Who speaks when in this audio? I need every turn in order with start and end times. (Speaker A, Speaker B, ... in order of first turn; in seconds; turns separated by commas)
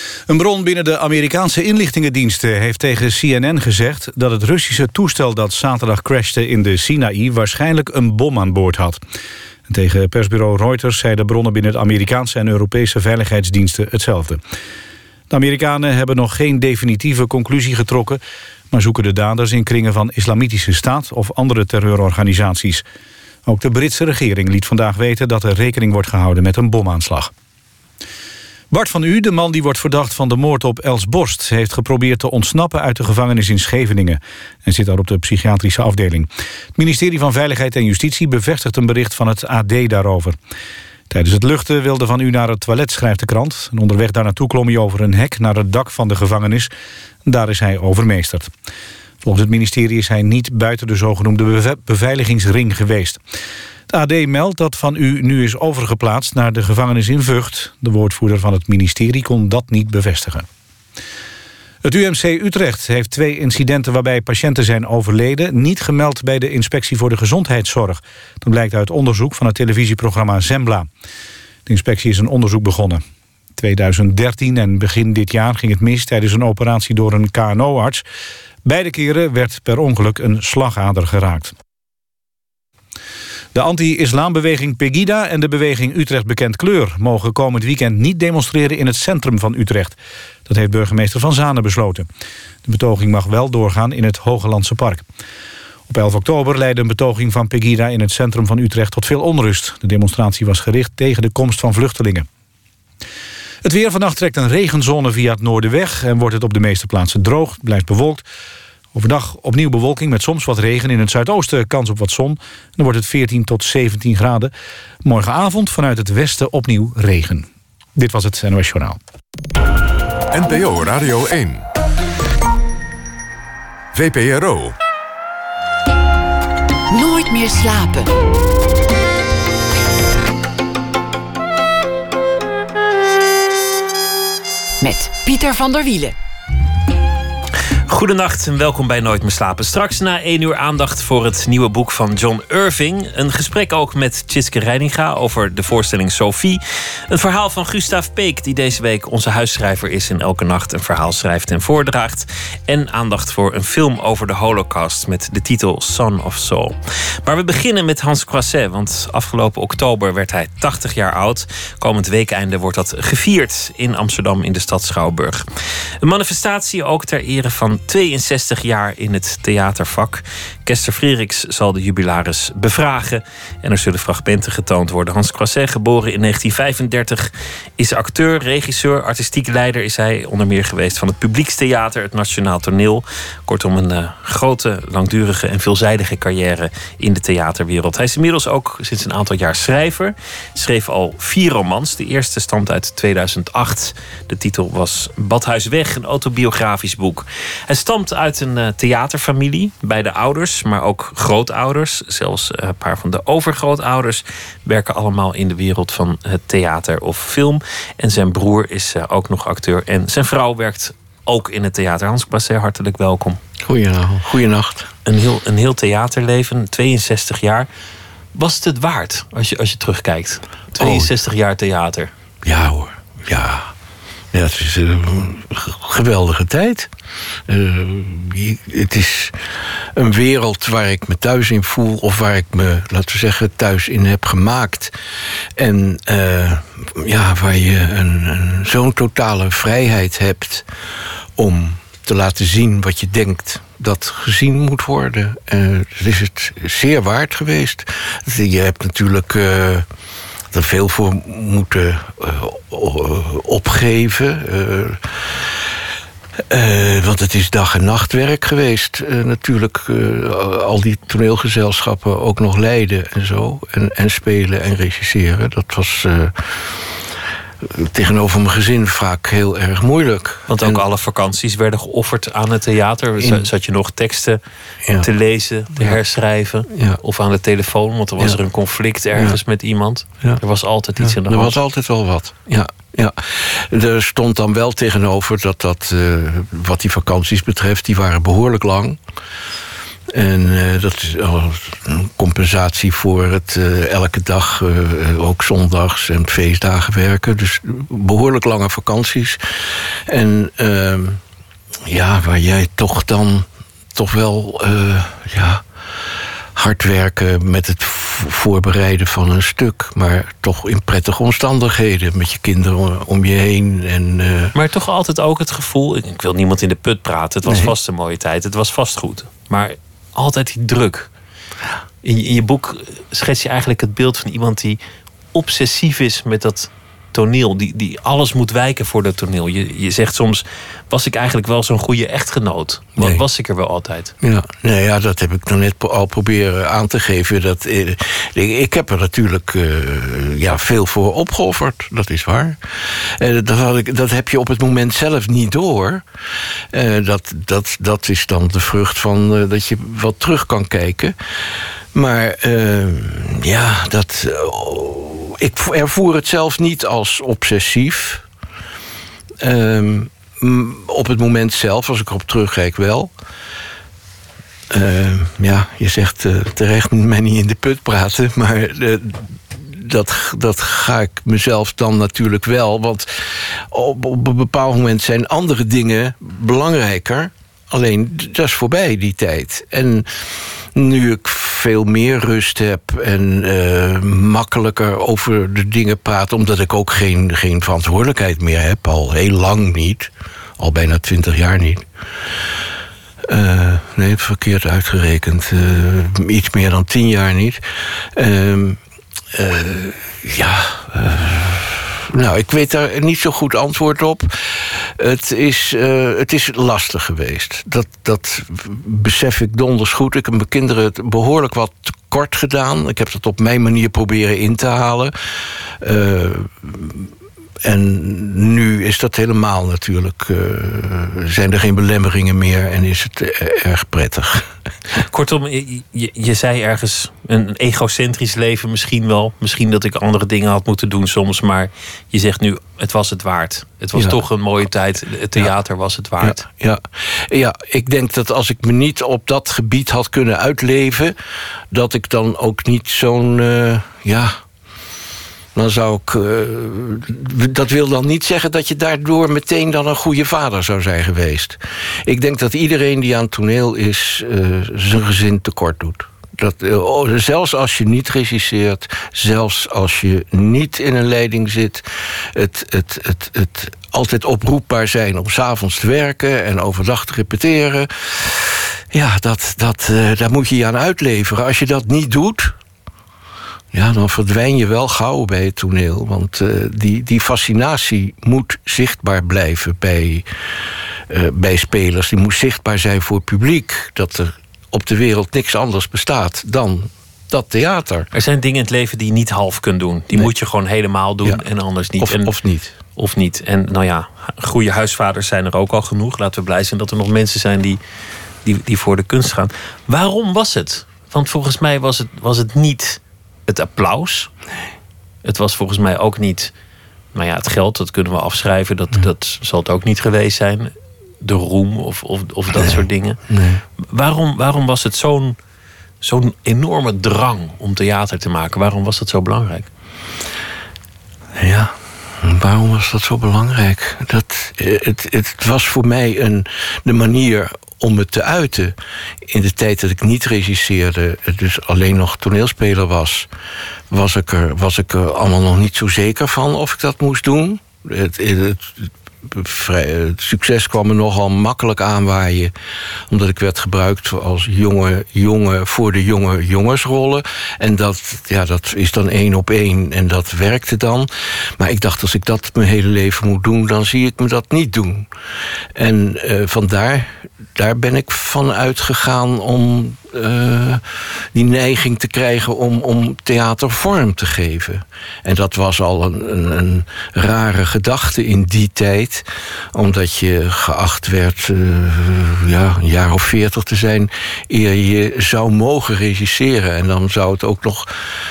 Speaker A: 0.3-9.0, Speaker A: 9.7-14.4, Speaker A: 15.3-22.8, Speaker A: 23.4-27.3, Speaker A: 28.7-40.4, Speaker A: 41.1-46.7, Speaker A: 47.2-48.5, Speaker A: 49.2-53.2, Speaker A: 53.9-60.5, Speaker A: 61.8-70.9, Speaker A: 71.7-73.0, Speaker A: 73.6-78.0, Speaker A: 78.6-81.5, Speaker A: 83.5-92.1, Speaker A: 92.6-95.0, Speaker A: 95.9-102.3, Speaker A: 103.6-108.2, Speaker A: 108.9-114.5, Speaker A: 115.0-119.0, Speaker B: 120.3-121.6, Speaker B: 123.9-124.7, Speaker C: 126.9-128.1, Speaker C: 134.8-136.1, Speaker D: 137.9-165.4, Speaker D: 166.0-213.4, Speaker E: 213.6-214.9, Speaker D: 215.1-217.7, Speaker D: 218.3-222.1, Speaker E: 220.8-221.1, Speaker E: 222.4-223.7, Speaker E: 224.3-226.9, Speaker E: 227.5-234.9, Speaker E: 235.6-240.7, Speaker E: 241.3-249.8, Speaker E: 250.5-255.6, Speaker E: 256.5-267.1, Speaker E: 267.6-270.8, Speaker D: 270.5-274.4, Speaker E: 273.2-273.5, Speaker D: 275.0-281.5, Speaker E: 276.7-277.0, Speaker E: 281.0-289.0, Speaker E: 290.1-301.2, Speaker E: 301.9-305.6, Speaker E: 306.5-314.5, Speaker D: 314.5-321.1, Speaker E: 317.4-317.7, Speaker D: 322.0-324.8, Speaker D: 325.3-334.1, Speaker E: 333.0-333.2, Speaker E: 334.2-346.0, Speaker E: 346.7-351.1, Speaker E: 351.9-358.2, Speaker E: 359.4-363.1, Speaker E: 364.7-380.1, Speaker E: 380.7-391.9, Speaker E: 393.3-397.6, Speaker E: 398.1-398.8, Speaker E: 399.3-415.1, Speaker E: 415.8-417.1, Speaker E: 417.6-424.5, Speaker D: 424.9-436.4, Speaker E: 433.9-434.2, Speaker E: 436.2-441.1, Speaker E: 441.7-444.4, Speaker E: 445.5-472.5, Speaker E: 473.7-480.2, Speaker E: 481.1-488.1, Speaker D: 488.1-492.3, Speaker E: 492.0-492.7, Speaker D: 492.9-497.8, Speaker D: 498.4-504.3, Speaker D: 505.2-506.5, Speaker D: 507.1-510.7, Speaker D: 511.2-513.2, Speaker E: 512.5-513.6, Speaker D: 513.9-515.3, Speaker D: 516.0-519.7, Speaker E: 521.4-533.3, Speaker E: 533.9-542.5, Speaker E: 543.1-555.1, Speaker E: 555.7-577.9